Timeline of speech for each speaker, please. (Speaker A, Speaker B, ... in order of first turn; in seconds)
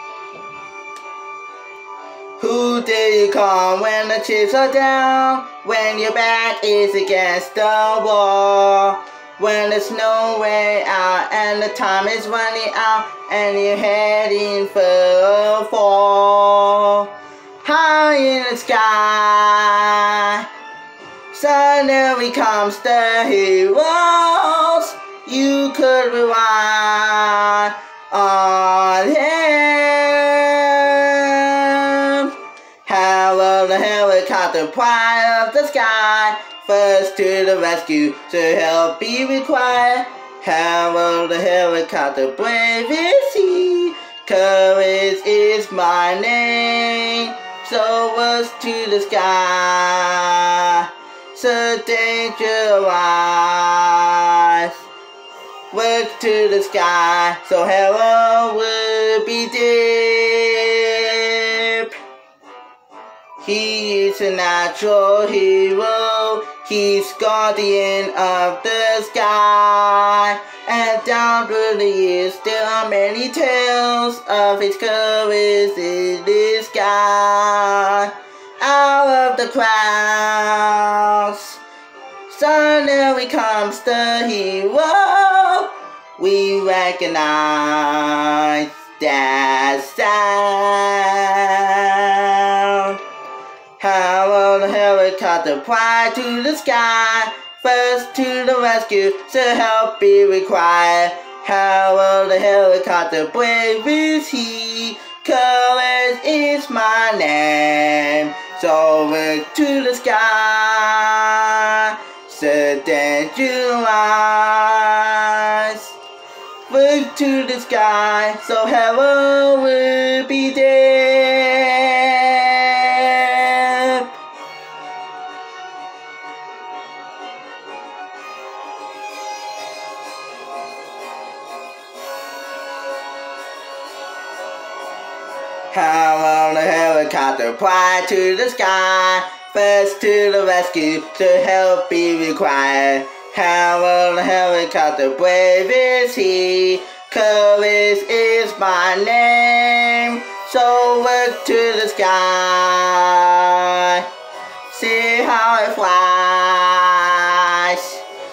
Speaker A: 2.4-20.5, 21.3-32.3, 32.8-54.8, 55.7-61.9, 63.4-81.6, 82.3-93.0, 93.8-115.9, 116.7-124.1, 135.7-154.1, 154.7-158.0